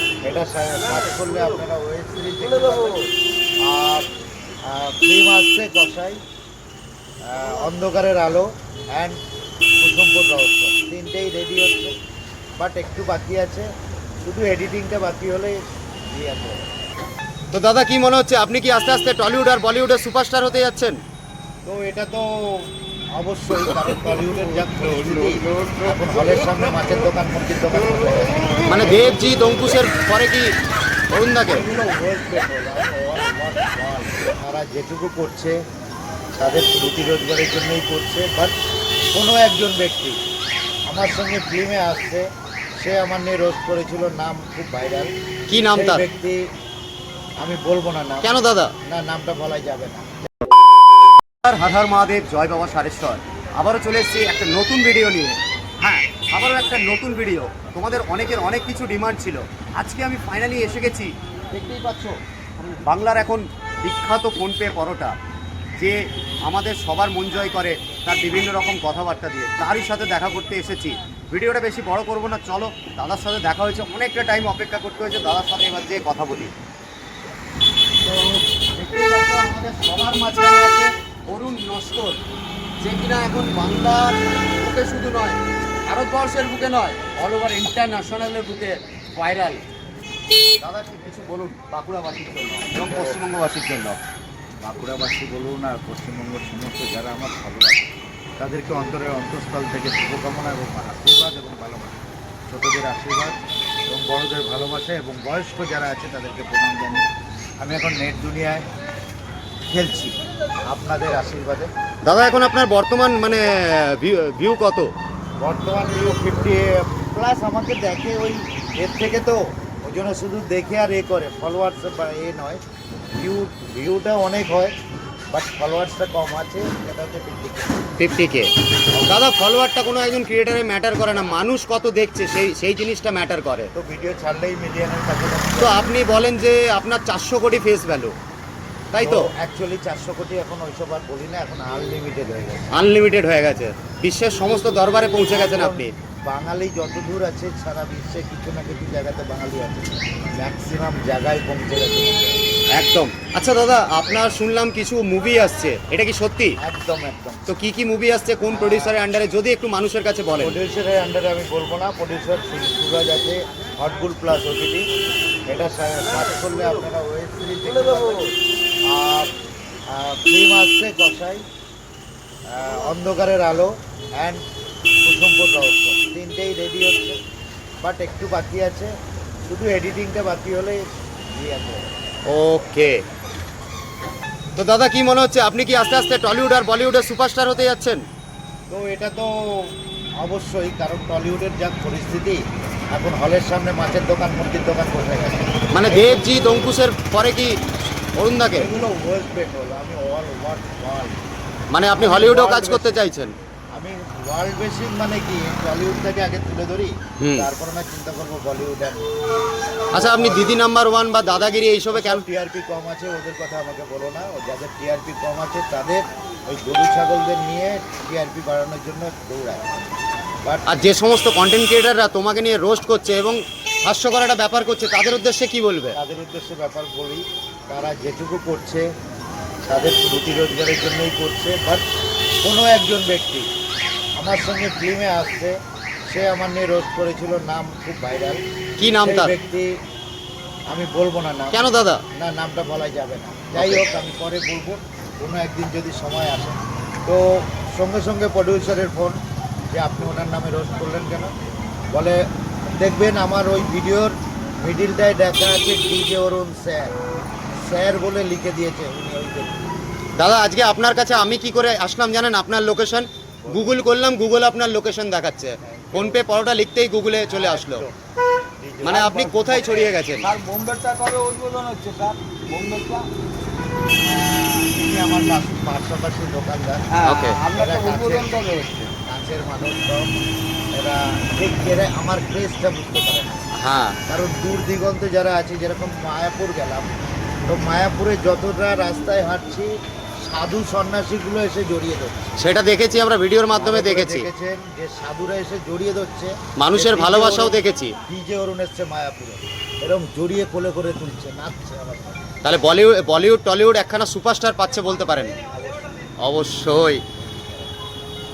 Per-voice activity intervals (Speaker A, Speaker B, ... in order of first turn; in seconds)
Speaker A: 0.2-3.0, 3.6-4.0, 4.7-6.2, 7.2-9.2, 9.8-11.9, 12.6-13.7, 14.2-15.6, 16.1-16.6, 21.6-28.6, 31.5-35.6, 36.4-38.5, 39.1-40.2, 40.9-45.1, 45.7-46.4, 47.4-48.3, 48.9-50.2, 92.9-93.2, 94.6-97.8, 98.4-103.3, 103.9-107.1, 107.6-108.7, 109.7-110.1, 110.7-111.7, 115.4-122.6, 123.2-124.7, 125.3-127.8, 133.7-135.9, 139.0-142.7, 145.1-152.4, 156.6-157.4, 158.5-159.0, 160.4-164.8, 165.5-168.2, 168.9-169.3, 169.9-171.4, 172.5-174.4, 175.0-177.2, 177.8-178.9, 179.5-180.8, 181.3-181.8, 188.7-196.6, 198.6-201.3, 201.9-203.0, 203.8-209.0, 209.9-210.6, 211.9-219.7, 220.4-220.8, 225.9-228.9, 229.6-231.8, 232.4-233.5, 234.2-235.6, 236.1-238.4, 239.0-239.8, 240.7-241.6, 242.1-249.2, 249.7-251.3, 251.9-256.9, 257.5-259.7, 263.4-263.8, 265.6-266.2, 267.3-268.0, 268.6-269.9, 274.1-276.9, 277.5-278.4, 279.1-280.1, 280.8-283.5, 284.1-286.9, 287.4-292.4, 293.5-302.2
Speaker B: 2.5-3.0, 167.7-168.2, 270.2-273.0, 276.9-278.9
Speaker C: 17.5-21.0, 28.6-30.5, 31.1-31.6, 45.5-46.0, 48.2-48.7, 51.4-65.2, 65.8-76.5, 78.0-82.2, 82.8-89.6, 90.6-94.0, 112.0-114.9, 128.0-133.7, 135.6-138.1, 138.9-139.3, 142.7-145.9, 152.7-156.6, 157.5-160.6, 182.3-182.9, 184.6-188.0, 195.7-197.6, 198.2-198.7, 201.7-203.3, 207.2-207.5, 209.9-212.2, 220.7-226.0, 238.8-239.3, 241.5-242.0, 243.6-243.8, 260.2-267.8, 268.8-270.3, 277.0-277.4, 283.5-284.0, 292.4-294.3, 296.6-297.9, 302.4-305.4, 306.2-307.0